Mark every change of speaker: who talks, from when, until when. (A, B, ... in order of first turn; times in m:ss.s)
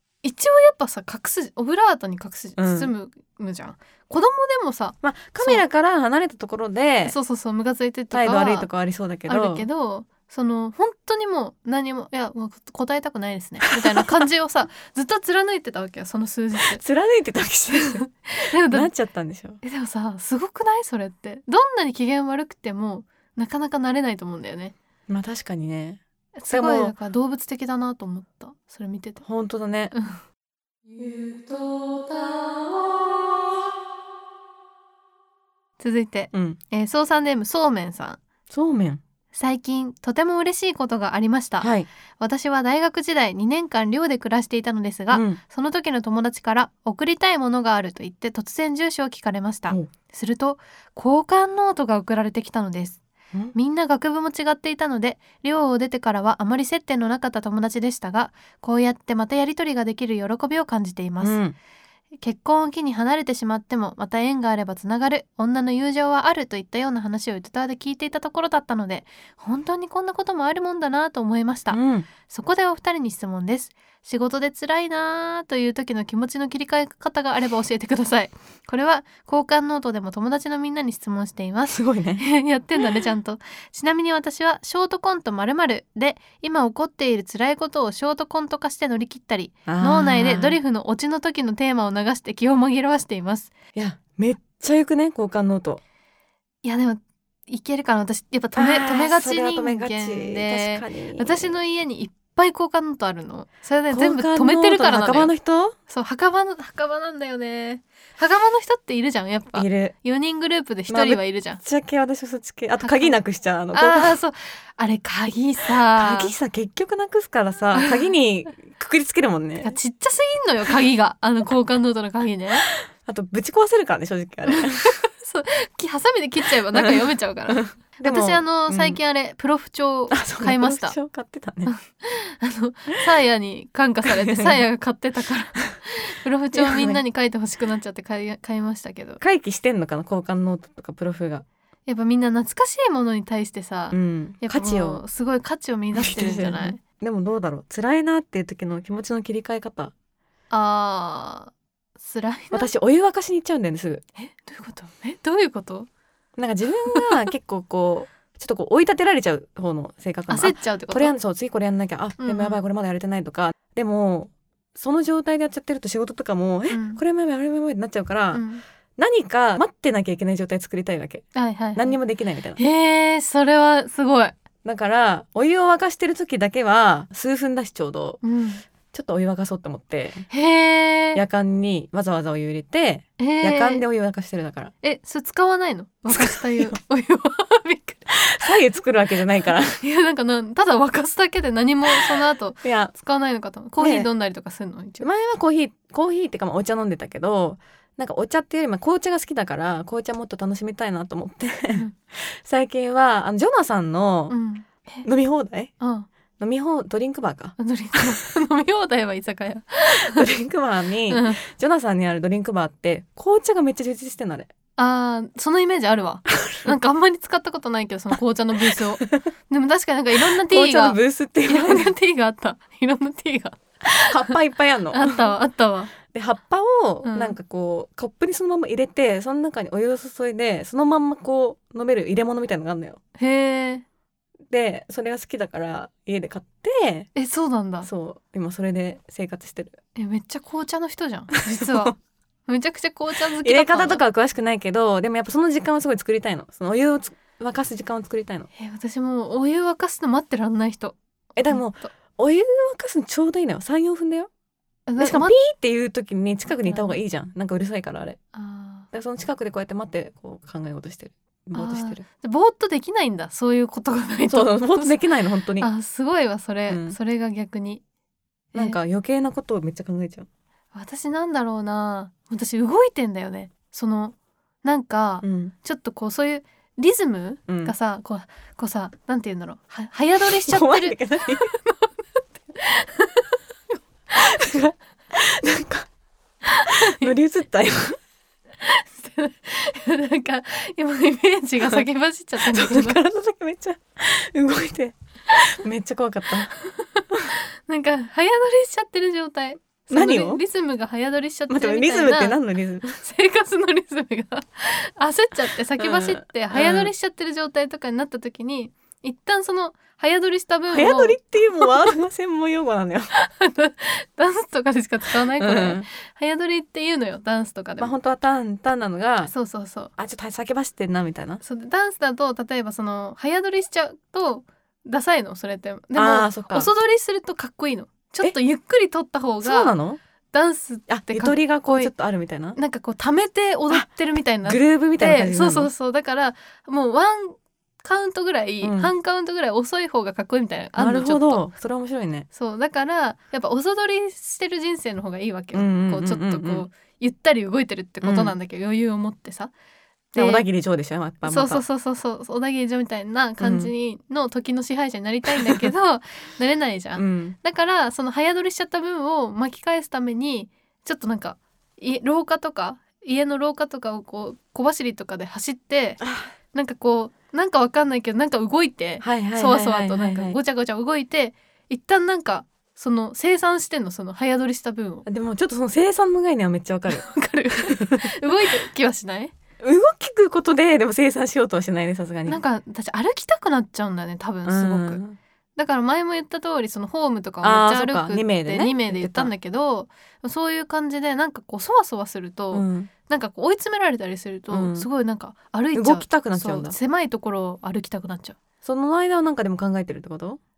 0:00.2-0:05.6 A
0:02.6-0:02.9 B
0:05.0-0:07.2 B
0:07.0-0:08.7 A
0:08.1-0:09.7 B
0:09.3-0:16.8 A
0:13.7-0:14.2 B
0:16.6-0:18.0 B
0:17.8-0:18.9 A
0:18.7-0:19.6 B
0:19.6-0:24.8 A
0:25.1-0:26.9 B
0:26.4-0:29.2 A
0:29.2-0:29.9 B
0:29.9-0:30.2 A
0:30.9-0:33.5 A
0:35.8-0:38.2 A
0:36.3-0:36.6 B
0:38.5-0:39.0 B
0:39.3-0:53.0 A
0:41.6-0:41.9 B
0:45.1-0:45.4 B
0:53.5-1:01.4 A
1:01.2-1:01.6 B
1:02.2-1:33.5 A
1:11.7-1:12.1 B
1:21.7-1:22.2 B
1:29.6-1:30.6 B
1:33.8-1:35.8 B
1:36.6-1:45.3 A
1:38.6-1:41.6 B
1:43.9-1:45.8 B
1:45.9-1:51.6 A
1:49.6-1:50.0 B
1:50.9-1:54.2 B
1:52.8-1:53.2 A
1:53.7-1:56.3 A
1:55.9-1:59.8 B
1:57.7-1:58.1 A
1:59.6-2:02.7 A
2:02.9-2:05.0 B
2:04.5-2:11.0 A
2:06.7-2:09.0 B
2:10.1-2:11.7 B
2:11.6-2:19.2 A
2:14.1-2:14.6 B
2:16.5-2:17.0 B
2:19.2-2:21.4 B
2:21.9-2:26.8 A
2:23.9-2:25.0 B
2:26.0-2:29.9 B
2:30.5-2:32.7 A
2:32.5-2:34.0 B
2:34.2-2:35.9 A
2:36.4-2:48.4 B
2:36.9-2:37.2 A
2:40.3-2:41.1 A
2:42.2-2:42.6 A
2:46.7-2:47.0 A
2:48.3-2:48.6 A
2:49.0-2:52.6 B
2:51.4-2:52.0 A
2:52.6-2:54.4 A
2:54.6-2:58.2 B
2:58.2-2:58.6 A
2:58.9-3:00.2 B
3:00.3-3:01.2 A
3:01.1-3:04.7 B
3:03.2-3:03.8 A
3:04.8-3:08.1 A
3:06.1-3:06.8 B
3:08.2-3:09.8 B
3:09.8-3:15.1 A
3:12.6-3:12.9 B
3:13.8-3:14.1 B
3:15.0-3:24.4 B
3:24.3-3:25.1 A
3:25.0-3:25.7 B
3:25.8-3:26.1 A
3:26.4-3:27.6 B
3:27.6-3:30.2 A
3:30.0-3:34.5 B
3:31.1-3:31.4 A
3:34.8-3:44.4 A
3:36.4-3:36.7 B
3:38.6-3:39.3 B
3:40.2-3:41.9 B
3:44.0-3:45.3 B
3:44.9-3:45.9 A
3:46.1-3:53.0 B
3:47.0-3:47.4 A
3:53.2-3:53.8 A
3:54.5-3:57.1 B
3:57.1-3:57.9 A
3:57.8-3:59.8 B
4:00.0-4:01.9 A
4:01.5-4:01.9 B
4:02.5-4:04.0 A
4:03.4-4:08.5 B
4:08.5-4:11.9 A
4:11.4-4:14.3 B
4:14.9-4:15.4 A
4:15.0-4:18.2 B
4:16.5-4:17.0 A
4:18.4-4:18.9 A
4:18.9-4:22.1 B
4:21.6-4:25.0 A
4:24.3-4:25.7 B
4:25.6-4:27.8 A
4:26.7-4:27.0 B
4:28.5-4:28.8 A
4:28.6-4:30.3 B
4:30.7-4:44.4 A
4:35.2-4:35.5 B
4:37.5-4:37.7 B
4:40.3-4:41.5 B
4:44.1-4:45.9 B
4:46.5-4:47.1 A
4:46.7-4:48.0 B
4:48.6-4:53.0 A
4:52.4-4:56.5 B
4:56.7-5:11.7 A
4:59.9-5:00.4 B
5:01.5-5:02.8 B
5:05.8-5:06.9 B
5:10.7-5:13.1 B
5:13.2-5:17.9 A
5:15.4-5:15.9 B
5:17.8-5:19.3 B
5:19.3-5:19.9 A
5:20.0-5:21.4 B
5:21.4-5:29.7 A
5:26.0-5:26.7 B
5:29.4-5:30.0 B
5:30.3-5:31.9 A
5:30.9-5:32.6 B
5:32.6-5:41.4 A
5:34.4-5:35.7 B
5:38.6-5:38.9 B
5:40.8-5:42.3 B
5:42.3-5:49.5 A
5:45.5-5:46.7 B
5:48.0-5:48.3 B
5:50.1-5:50.5 A
5:50.2-5:51.6 B
5:51.2-6:06.0 A
5:53.4-5:53.7 B
5:55.4-5:55.7 B
5:57.0-5:57.4 B
6:06.0-6:06.3 B
6:06.5-6:15.1 A
6:09.0-6:10.4 B
6:15.1-6:17.1 B
6:16.9-6:19.3 A
6:17.7-6:18.1 B
6:19.6-6:22.4 B
6:22.2-6:25.0 A
6:24.4-6:25.2 B
6:25.6-6:38.4 A
6:27.4-6:29.3 B
6:32.5-6:32.9 B
6:34.5-6:34.9 B
6:35.7-6:36.8 B
6:38.6-6:40.4 B